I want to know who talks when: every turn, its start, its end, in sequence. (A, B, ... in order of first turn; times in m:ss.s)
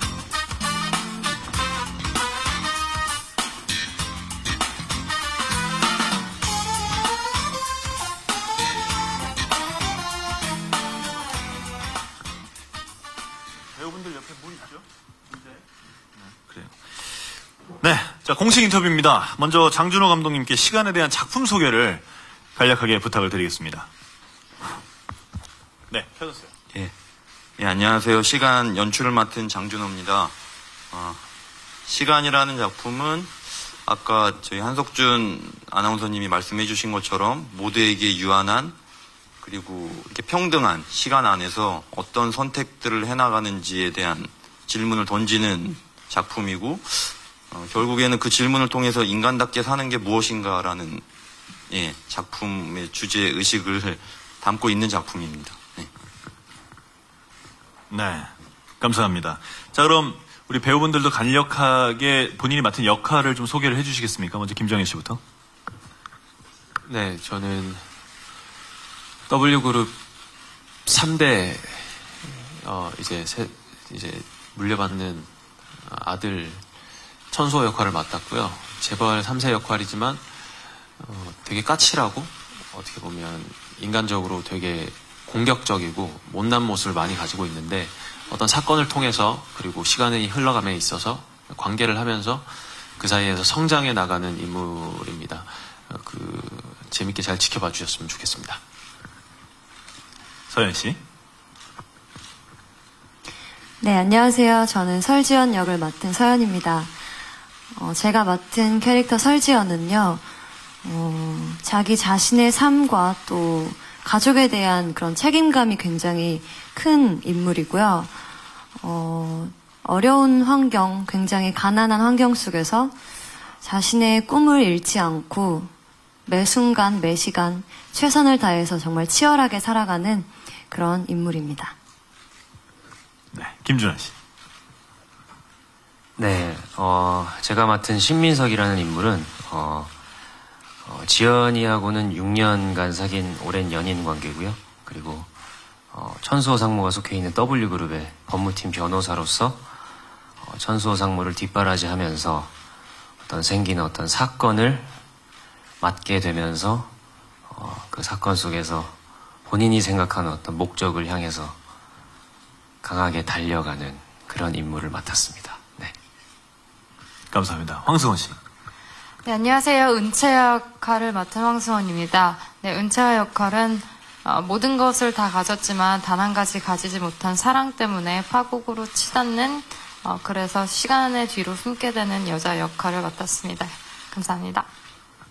0:13.8-0:15.5 A
0:16.2-0:16.7 A
0:17.8-0:22.0 A
0:22.6-0:23.9 A
0:25.9-0:26.5 A
0:27.6-0:30.3 B
0:30.9-0:31.2 B
0:31.8-0:38.8 B
0:39.4-0:51.0 B
0:51.7-0:55.9 B
0:57.9-1:05.2 A
1:06.8-1:07.8 C
1:09.3-1:10.0 C
1:10.8-1:16.6 C
1:17.3-1:38.6 C
1:40.5-1:41.0 A
1:43.8-1:46.9 D
1:47.7-1:50.2 D
1:50.8-1:58.1 D
1:58.8-2:02.9 D
2:03.6-2:05.7 D
2:06.2-2:11.7 D
2:13.3-2:14.1 A
2:16.2-2:19.9 E
2:20.8-2:25.3 E
2:25.9-2:29.6 E
2:30.4-2:32.5 E
2:33.2-2:34.9 E
2:35.8-2:36.9 E
2:37.5-2:41.6 E
2:42.8-2:45.9 E
2:47.3-2:48.4 A
2:49.2-3:04.7 F